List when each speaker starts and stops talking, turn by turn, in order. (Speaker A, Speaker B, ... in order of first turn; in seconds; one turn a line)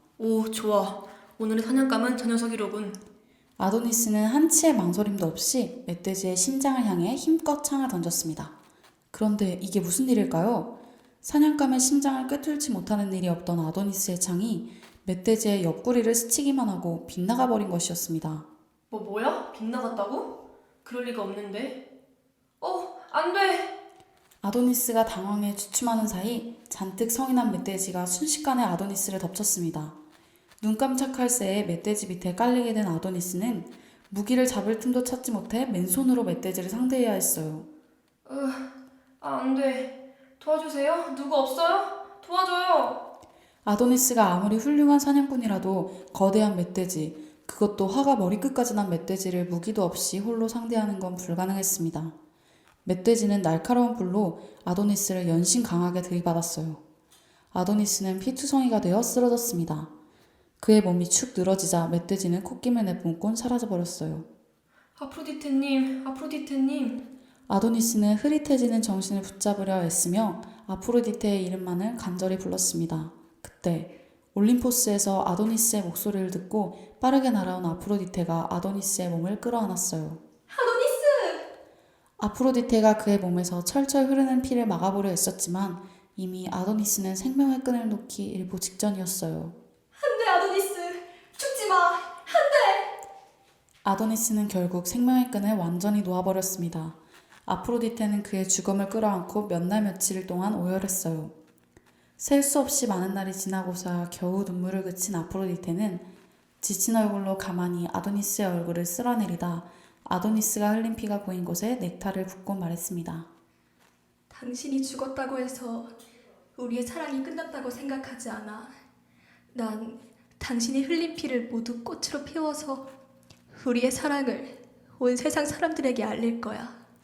Speaker A: 0.2-3.0
Speaker B: 3.6-8.5
Speaker B: 9.1-18.4
Speaker A: 18.9-21.8
Speaker A: 22.6-23.7
Speaker B: 24.4-29.9
Speaker B: 30.6-37.7
Speaker A: 38.2-43.0
Speaker B: 43.6-52.1
Speaker B: 52.8-56.8
Speaker B: 57.5-59.9
Speaker B: 60.6-64.3
Speaker A: 65.0-67.0
Speaker B: 67.5-80.2
Speaker C: 80.5-81.5
Speaker B: 82.2-89.6
Speaker C: 90.0-92.9
Speaker B: 93.8-101.3
Speaker B: 102.2-106.1
Speaker B: 106.6-113.3
Speaker C: 114.3-115.9
Speaker C: 116.5-118.7
Speaker C: 119.5-122.9
Speaker C: 123.5-126.8